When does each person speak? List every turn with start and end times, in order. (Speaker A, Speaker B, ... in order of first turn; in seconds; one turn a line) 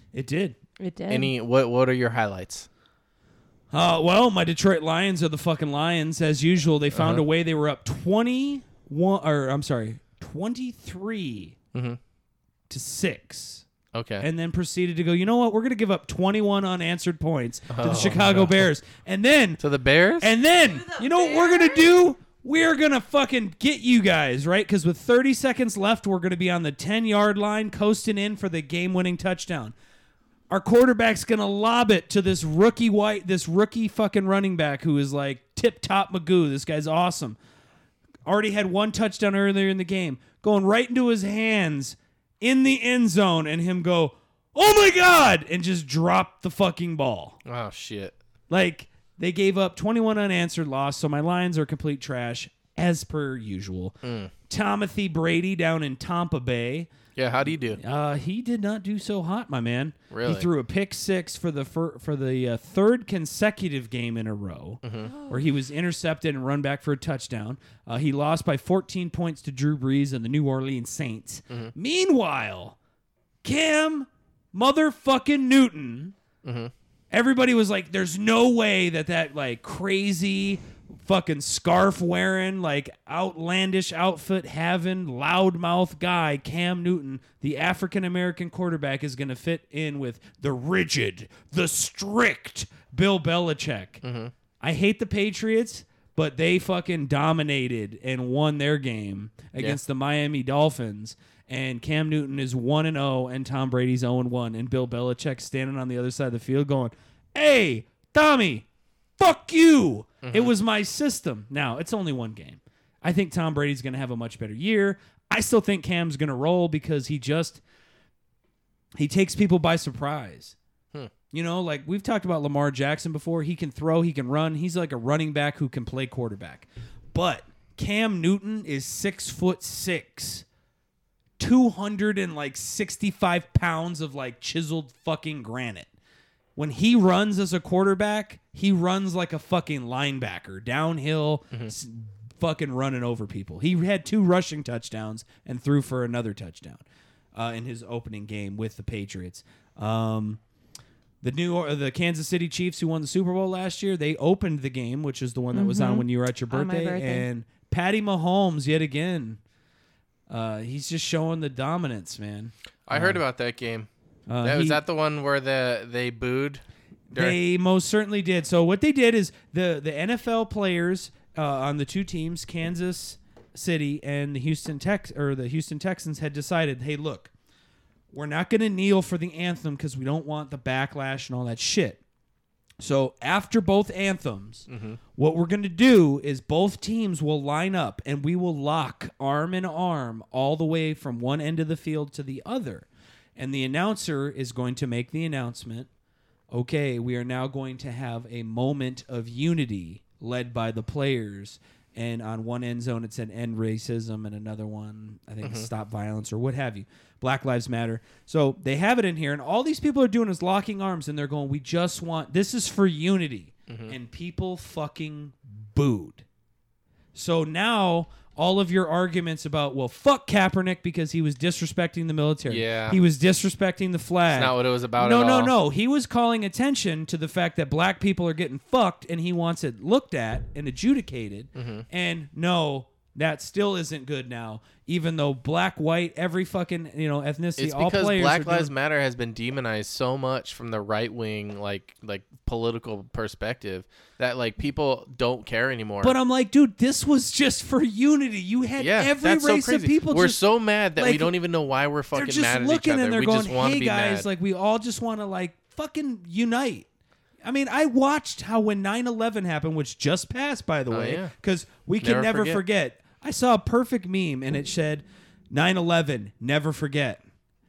Speaker A: 0.1-0.6
Speaker B: 0.8-1.3
Speaker C: 1.1-2.7
Speaker A: 3.7-11.6
Speaker C: 6.9-7.2
Speaker C: 11.7-12.0
Speaker A: 12.7-13.7
Speaker C: 13.9-14.3
Speaker A: 14.2-19.6
Speaker C: 17.7-18.6
Speaker C: 19.6-20.3
Speaker A: 20.2-29.7
Speaker B: 20.6-22.1
Speaker A: 30.5-37.4
Speaker A: 38.2-47.4
Speaker C: 47.5-48.2
Speaker A: 48.5-56.9
Speaker C: 54.0-54.3
Speaker C: 57.2-57.8
Speaker A: 57.8-72.8
Speaker C: 60.1-60.5
Speaker C: 64.8-65.1
Speaker B: 65.1-65.4
Speaker A: 73.4-76.2
Speaker C: 76.4-76.7
Speaker A: 77.1-94.0
Speaker C: 94.0-94.3
Speaker A: 94.6-108.7
Speaker A: 109.2-117.6
Speaker C: 110.2-110.5
Speaker A: 119.0-120.6
Speaker A: 121.3-130.4
Speaker A: 131.4-135.9
Speaker A: 136.6-146.8
Speaker A: 147.3-150.4
Speaker A: 151.2-159.4
Speaker B: 155.5-157.3
Speaker A: 160.3-163.2
Speaker C: 162.9-163.9
Speaker A: 164.3-164.8
Speaker C: 164.4-167.4
Speaker A: 167.1-177.3
Speaker A: 178.1-182.0
Speaker A: 182.8-192.9
Speaker C: 184.7-185.0
Speaker A: 193.4-195.9
Speaker A: 196.5-216.2
Speaker C: 205.4-205.7
Speaker C: 213.7-213.9
Speaker A: 217.2-238.7
Speaker C: 222.5-223.0
Speaker C: 224.3-225.6
Speaker C: 231.6-231.9
Speaker C: 237.6-246.2
Speaker A: 246.0-250.4
Speaker C: 248.8-254.3
Speaker A: 251.0-251.3
Speaker A: 252.1-256.9
Speaker A: 257.4-267.2
Speaker C: 260.9-261.3
Speaker C: 262.0-262.6